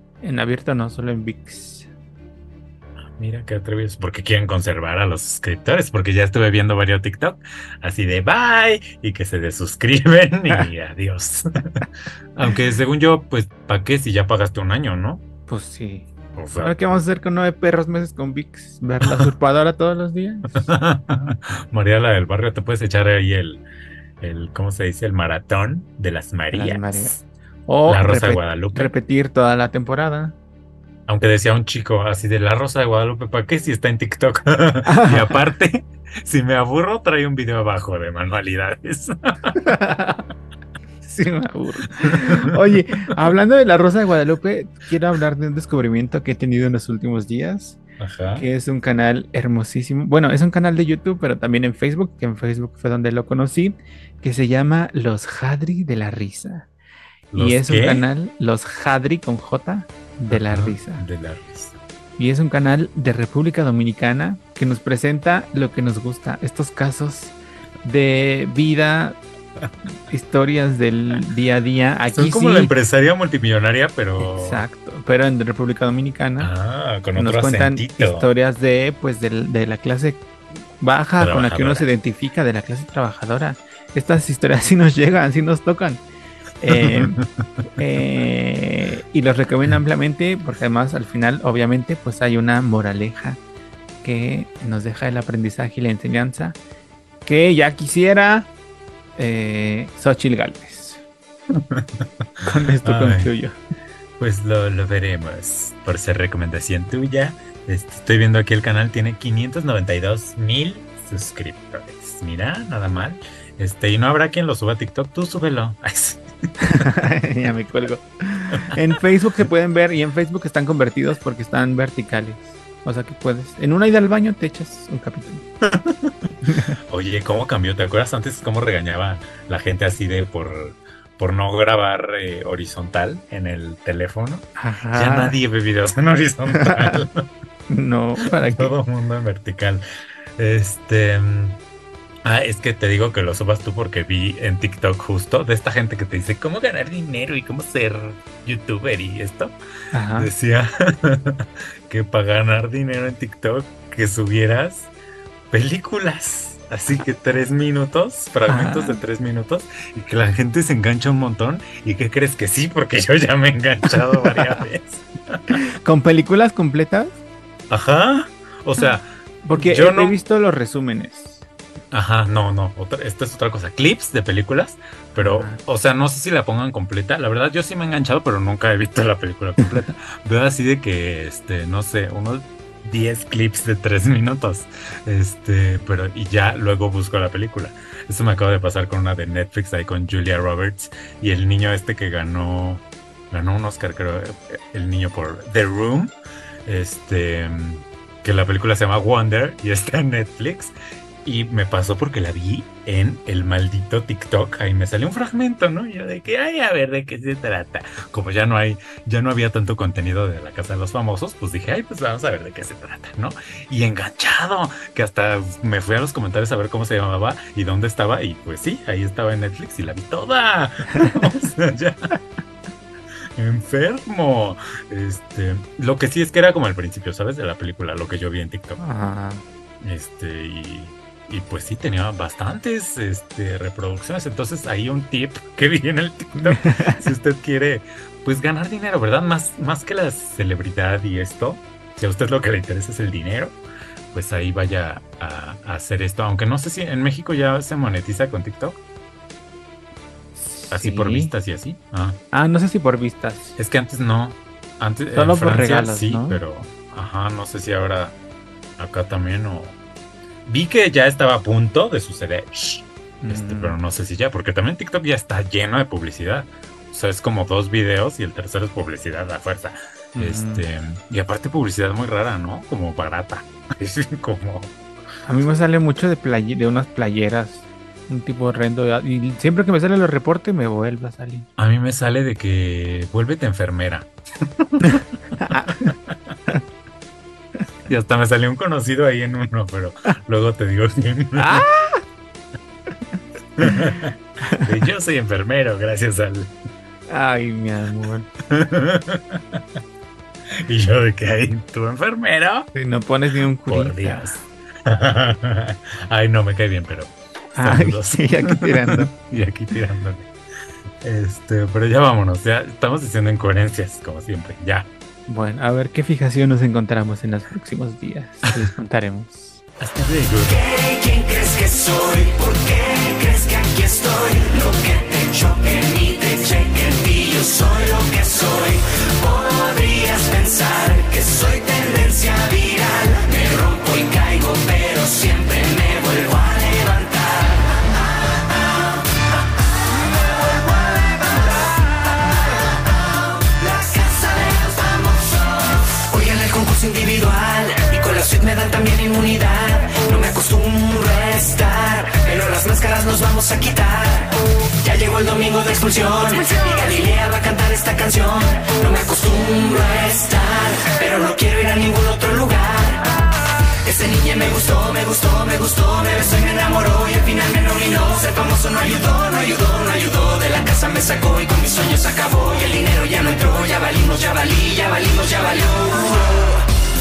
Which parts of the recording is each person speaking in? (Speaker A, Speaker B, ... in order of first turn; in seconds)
Speaker A: 0.2-1.9, 15.5-20.7, 26.5-30.3, 34.9-35.4, 39.6-40.2, 41.0-47.8, 48.4-56.7, 57.3-61.0, 62.2-69.2, 70.1-72.7, 74.2-76.5, 77.2-80.3, 80.8-86.0, 86.6-87.2, 87.8-93.4, 94.0-96.6, 97.2-98.5, 99.2-101.0, 102.4-103.6, 116.6-125.5, 126.5-126.7, 134.6-135.3, 136.6-137.0, 137.7-138.7, 149.9-150.3, 158.5-159.0, 164.3-164.6, 165.6-167.2, 169.4-171.4, 175.2-175.6, 228.8-229.4, 236.5-237.0, 250.3-251.3, 252.3-253.6, 255.1-256.4, 263.2-263.8, 270.1-270.6, 275.2-281.5, 284.8-285.9, 291.4-292.0, 297.1-298.3, 302.7-304.4, 307.5-309.1, 315.3-319.6
Speaker B: 3.1-15.2, 16.3-17.0, 20.5-23.6, 24.2-27.2, 27.9-28.9, 31.1-39.6, 42.0-42.4, 48.0-48.4, 57.3-58.1, 60.3-61.8, 72.1-74.6, 76.4-78.3, 81.2-81.9, 86.7-87.3, 101.5-103.3, 104.2-116.2, 125.6-137.3, 138.3-139.8, 140.4-141.6, 142.2-149.5, 150.2-154.9, 155.5-165.6, 167.7-170.2, 171.9-196.1, 196.7-200.7, 201.2-222.1, 223.3-228.8, 229.8-243.5, 244.1-248.8, 250.7-252.2, 253.6-258.1, 258.8-259.8, 260.4-274.7, 281.6-286.3, 287.9-291.6, 293.6-296.5, 298.5-299.6, 300.5-302.7, 303.7-310.3, 311.0-314.9, 319.8-320.6
Speaker C: 320.5-339.2, 339.9-363.3, 363.8-376.6